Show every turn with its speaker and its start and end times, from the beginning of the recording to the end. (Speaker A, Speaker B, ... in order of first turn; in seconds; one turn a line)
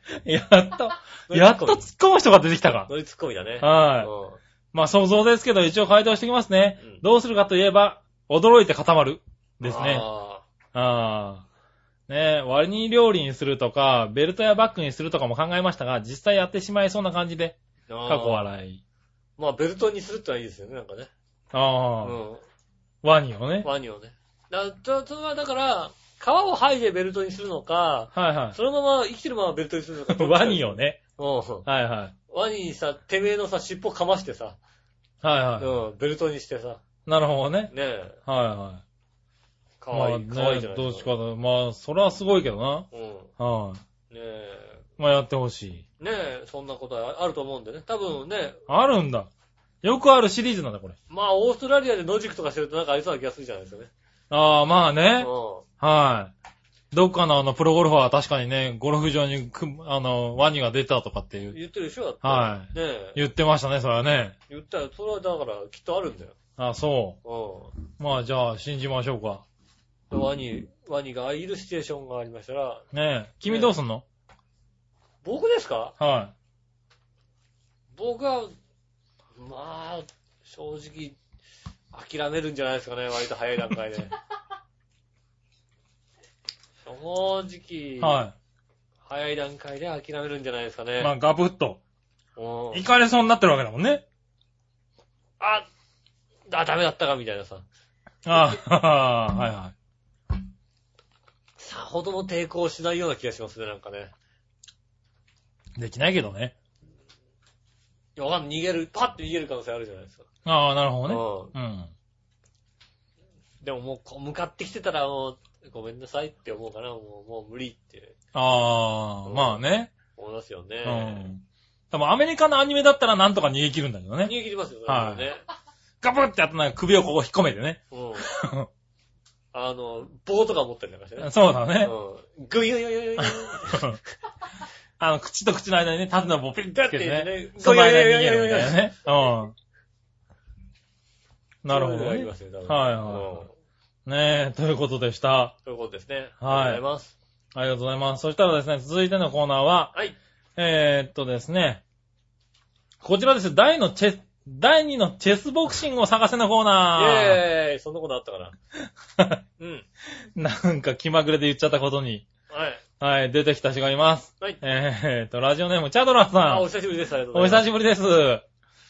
Speaker A: 0.2-2.9
Speaker B: 1.3-1.9
Speaker B: 2.9-4.4
Speaker A: 3.6-4.1
Speaker A: 4.7-10.1
Speaker B: 9.6-10.4
Speaker A: 10.7-11.4
Speaker A: 12.1-18.8
Speaker B: 17.9-18.5
Speaker B: 19.4-21.1
Speaker A: 21.5-22.2
Speaker B: 22.0-22.4
Speaker A: 23.0-23.7
Speaker B: 23.6-31.7
Speaker A: 28.1-28.6
Speaker A: 30.1-31.0
Speaker A: 31.6-32.1
Speaker B: 32.3-34.6
Speaker A: 35.2-35.8
Speaker B: 35.6-36.8
Speaker A: 37.1-37.7
Speaker B: 37.7-38.2
Speaker A: 38.3-38.8
Speaker B: 39.8-41.1
Speaker A: 39.9-42.9
Speaker B: 42.9-43.3
Speaker A: 43.4-43.8
Speaker B: 44.1-44.8
Speaker A: 45.0-45.8
Speaker B: 46.0-48.6
Speaker A: 48.7-49.3
Speaker A: 49.8-51.0
Speaker B: 51.1-53.9
Speaker A: 54.3-56.3
Speaker B: 55.2-55.7
Speaker A: 56.9-61.6
Speaker B: 61.5-63.2
Speaker A: 62.2-64.4
Speaker B: 64.5-66.4
Speaker A: 66.6-67.2
Speaker B: 67.2-67.7
Speaker A: 68.0-69.4
Speaker B: 70.1-72.8
Speaker A: 72.9-74.0
Speaker B: 73.5-73.7
Speaker B: 75.2-76.0
Speaker A: 76.0-76.3
Speaker B: 77.9-78.5
Speaker B: 79.4-81.2
Speaker B: 81.9-84.1
Speaker B: 86.9-88.2
Speaker A: 88.0-88.3
Speaker B: 89.1-91.1
Speaker A: 91.0-91.8
Speaker B: 92.4-92.8
Speaker A: 92.7-94.0
Speaker B: 95.4-95.7
Speaker B: 96.5-97.7
Speaker A: 98.3-99.7
Speaker B: 101.6-104.1
Speaker A: 105.8-106.5
Speaker B: 108.2-110.3
Speaker A: 110.5-111.9
Speaker B: 111.1-111.5
Speaker B: 113.6-118.2
Speaker A: 118.3-119.9
Speaker B: 119.2-119.6
Speaker B: 120.2-121.3
Speaker A: 120.8-125.3
Speaker B: 124.2-125.4
Speaker A: 126.0-128.7
Speaker B: 127.9-128.3
Speaker B: 129.5-133.9
Speaker A: 131.2-131.9
Speaker A: 133.2-134.0
Speaker A: 135.0-139.6
Speaker B: 136.7-138.9
Speaker A: 141.6-143.3
Speaker B: 141.7-143.5
Speaker A: 144.1-145.6
Speaker B: 145.6-147.2
Speaker A: 146.4-146.8
Speaker A: 147.5-149.9
Speaker A: 150.6-151.8
Speaker A: 153.0-157.4
Speaker B: 156.9-158.6
Speaker A: 159.2-159.4
Speaker B: 159.6-159.9
Speaker A: 160.3-162.3
Speaker B: 162.5-162.8
Speaker A: 163.0-166.7
Speaker B: 166.5-167.7
Speaker A: 167.3-168.4